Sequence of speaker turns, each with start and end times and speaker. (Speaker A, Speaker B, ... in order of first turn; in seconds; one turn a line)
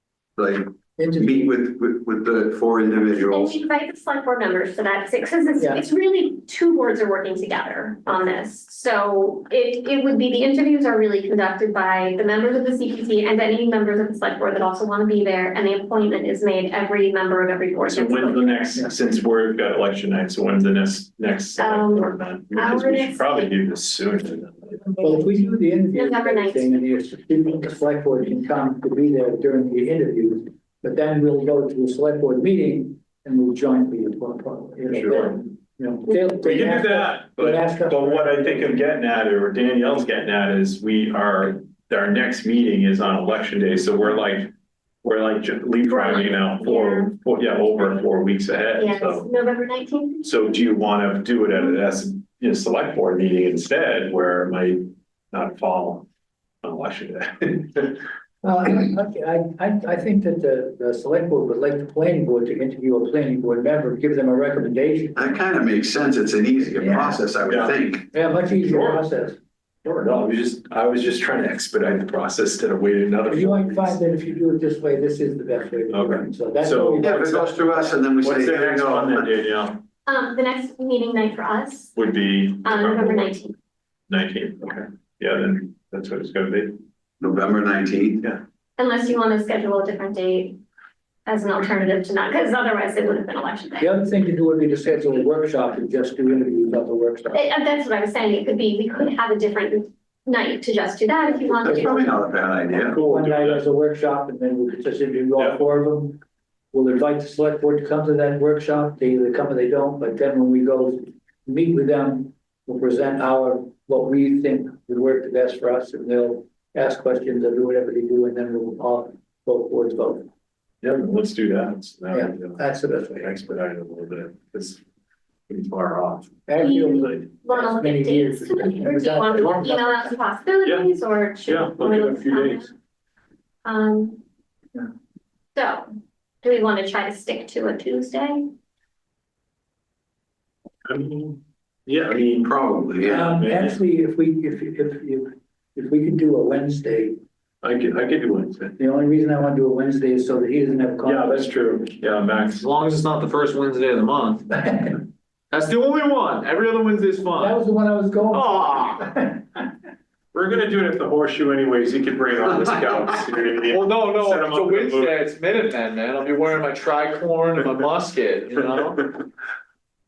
Speaker A: 0.4-3.6
Speaker B: 1.0-1.5
Speaker C: 3.2-18.7
Speaker D: 17.8-24.9
Speaker C: 21.6-23.5
Speaker B: 25.0-38.5
Speaker C: 25.9-26.7
Speaker D: 34.9-35.4
Speaker D: 36.4-44.5
Speaker D: 45.0-49.3
Speaker C: 45.9-47.1
Speaker C: 48.8-50.4
Speaker D: 50.2-56.0
Speaker D: 56.6-58.0
Speaker B: 58.4-65.2
Speaker A: 65.2-68.0
Speaker B: 66.8-67.2
Speaker D: 67.4-67.8
Speaker B: 68.1-69.4
Speaker D: 68.3-69.0
Speaker D: 69.8-74.0
Speaker B: 73.3-78.0
Speaker D: 75.9-77.2
Speaker A: 77.0-79.3
Speaker D: 78.2-79.8
Speaker C: 80.0-82.0
Speaker D: 81.9-83.3
Speaker C: 82.6-83.5
Speaker D: 84.1-86.8
Speaker A: 87.2-88.2
Speaker C: 88.8-90.6
Speaker C: 91.2-93.9
Speaker B: 93.8-97.4
Speaker C: 97.3-102.1
Speaker A: 101.6-103.0
Speaker D: 102.8-103.6
Speaker B: 102.9-106.2
Speaker B: 106.7-120.3
Speaker D: 120.8-124.8
Speaker B: 122.1-123.3
Speaker D: 125.5-127.2
Speaker B: 126.5-129.9
Speaker C: 126.6-132.7
Speaker D: 131.4-132.7
Speaker C: 133.6-134.2
Speaker C: 135.5-135.9
Speaker C: 136.4-138.5
Speaker D: 140.8-143.8
Speaker A: 142.4-143.1
Speaker B: 143.0-147.2
Speaker D: 147.6-148.7
Speaker B: 148.8-151.4
Speaker D: 151.0-152.6
Speaker E: 152.6-154.8
Speaker E: 155.5-157.6
Speaker B: 157.4-159.6
Speaker E: 158.3-159.1
Speaker D: 160.3-165.2
Speaker E: 163.7-169.1